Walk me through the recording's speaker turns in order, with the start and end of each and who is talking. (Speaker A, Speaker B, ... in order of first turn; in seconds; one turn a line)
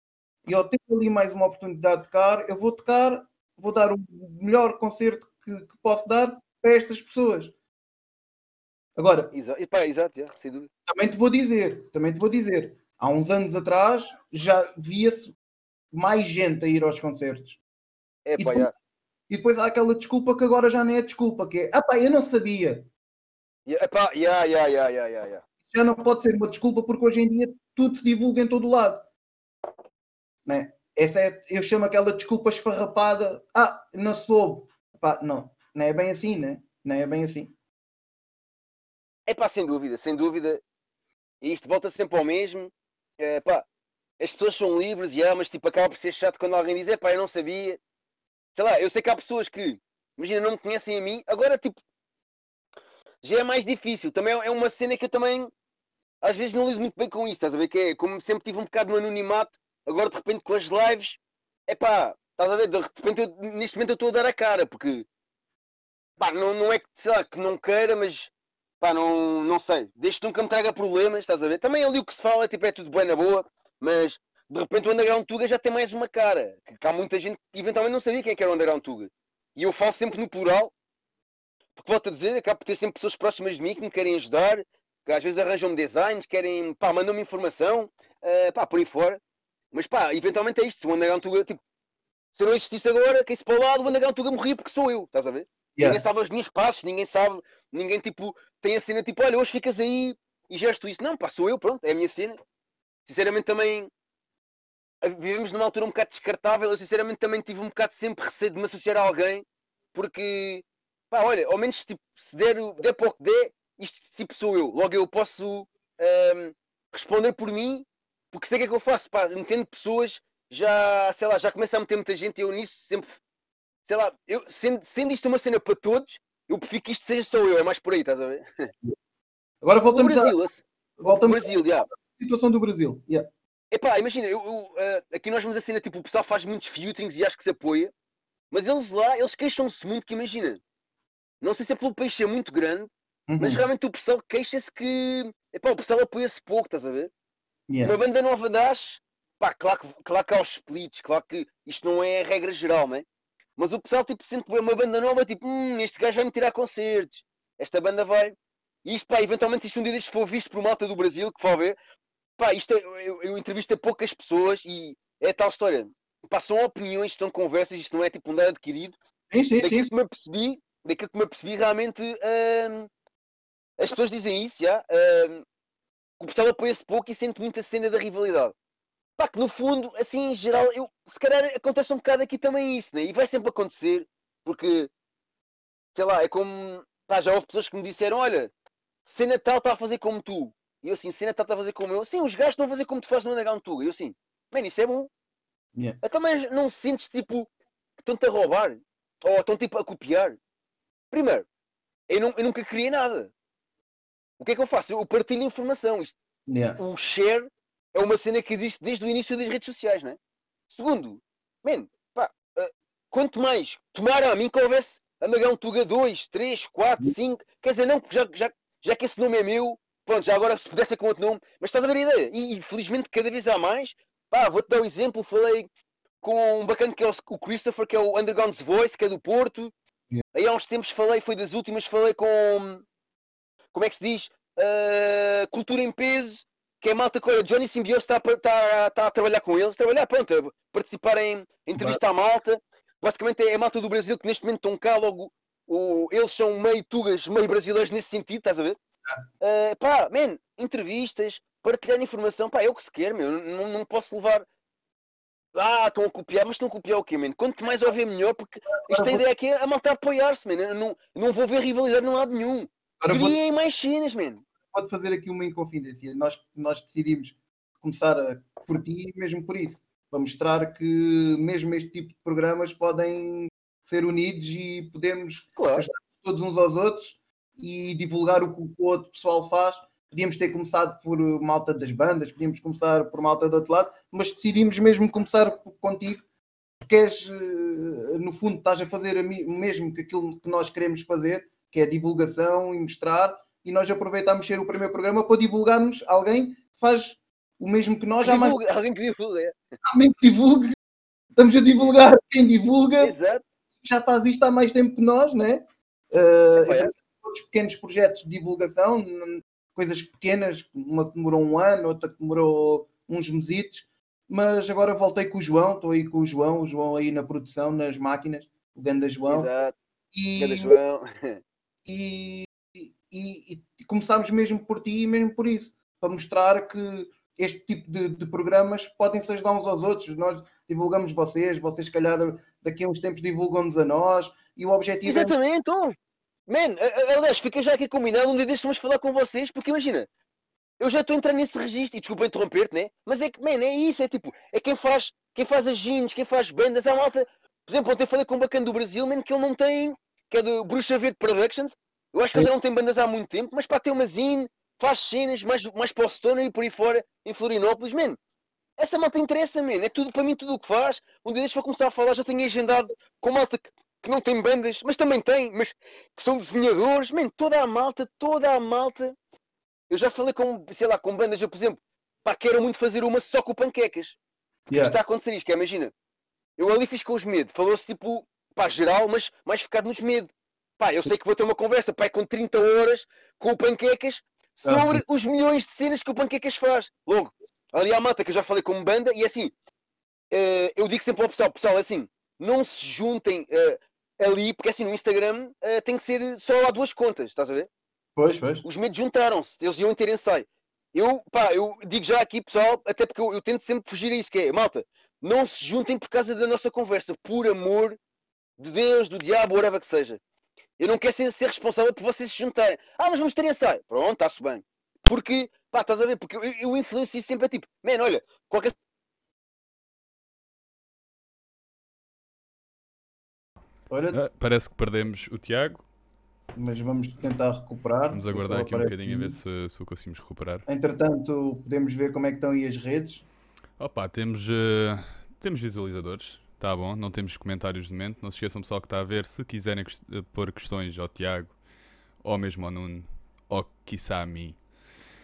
Speaker A: 0.4-7.5
Speaker A: 9.0-9.3
Speaker B: 9.3-10.7
Speaker A: 10.9-15.3
Speaker A: 15.9-17.6
Speaker B: 18.2-18.7
Speaker A: 18.4-18.7
Speaker A: 19.3-22.9
Speaker B: 23.6-25.4
Speaker A: 25.7-29.1
Speaker A: 30.4-37.5
Speaker B: 39.3-40.6
Speaker B: 41.4-43.6
Speaker B: 44.2-47.8
Speaker B: 48.5-51.8
Speaker B: 53.2-55.5
Speaker B: 56.2-65.0
Speaker B: 66.2-80.7
Speaker B: 81.8-89.2
Speaker B: 89.7-91.6
Speaker B: 92.3-102.4
Speaker A: 95.8-96.0
Speaker B: 103.0-103.9
Speaker B: 105.0-123.2
Speaker B: 123.8-128.7
Speaker A: 129.6-130.3
Speaker B: 129.9-131.9
Speaker A: 131.0-133.2
Speaker B: 133.7-137.9
Speaker B: 138.5-140.6
Speaker B: 141.4-147.1
Speaker A: 143.3-143.6
Speaker A: 147.7-147.9
Speaker B: 147.8-153.1
Speaker B: 153.6-161.8
Speaker B: 162.4-168.9
Speaker A: 169.3-169.9
Speaker B: 169.6-172.9
Speaker B: 173.8-175.4
Speaker B: 176.2-178.5
Speaker B: 179.2-184.9
Speaker B: 185.9-188.5
Speaker B: 189.1-195.1
Speaker B: 196.0-200.4
Speaker B: 201.1-201.4
Speaker B: 202.1-203.3
Speaker B: 204.4-206.2
Speaker A: 206.5-206.8
Speaker B: 206.8-210.2
Speaker B: 210.7-225.7
Speaker B: 226.2-229.7
Speaker B: 230.3-232.8
Speaker B: 233.7-248.8
Speaker B: 249.4-254.4
Speaker B: 255.5-264.4
Speaker A: 258.7-259.2
Speaker A: 263.0-263.4
Speaker A: 264.7-286.2
Speaker B: 275.6-275.8
Speaker A: 286.8-298.6
Speaker B: 298.2-299.6
Speaker A: 299.9-300.7
Speaker A: 301.4-303.1
Speaker B: 303.0-303.4
Speaker A: 303.8-319.5
Speaker B: 306.6-306.9
Speaker B: 319.3-319.8
Speaker A: 320.1-320.8
Speaker B: 320.4-321.4
Speaker A: 321.9-335.3
Speaker B: 335.0-340.1
Speaker B: 340.8-358.2
Speaker B: 358.8-369.1
Speaker B: 369.9-374.2
Speaker A: 374.7-375.0
Speaker B: 374.8-375.9
Speaker B: 376.6-389.5
Speaker A: 384.6-385.0
Speaker B: 390.3-397.7
Speaker A: 398.1-398.6
Speaker B: 398.6-408.0
Speaker B: 408.6-410.2
Speaker B: 410.8-418.7
Speaker A: 423.9-424.2
Speaker C: 424.1-425.8
Speaker A: 426.5-429.4
Speaker C: 428.1-430.6
Speaker A: 430.7-433.3
Speaker C: 433.8-441.6
Speaker C: 442.2-444.6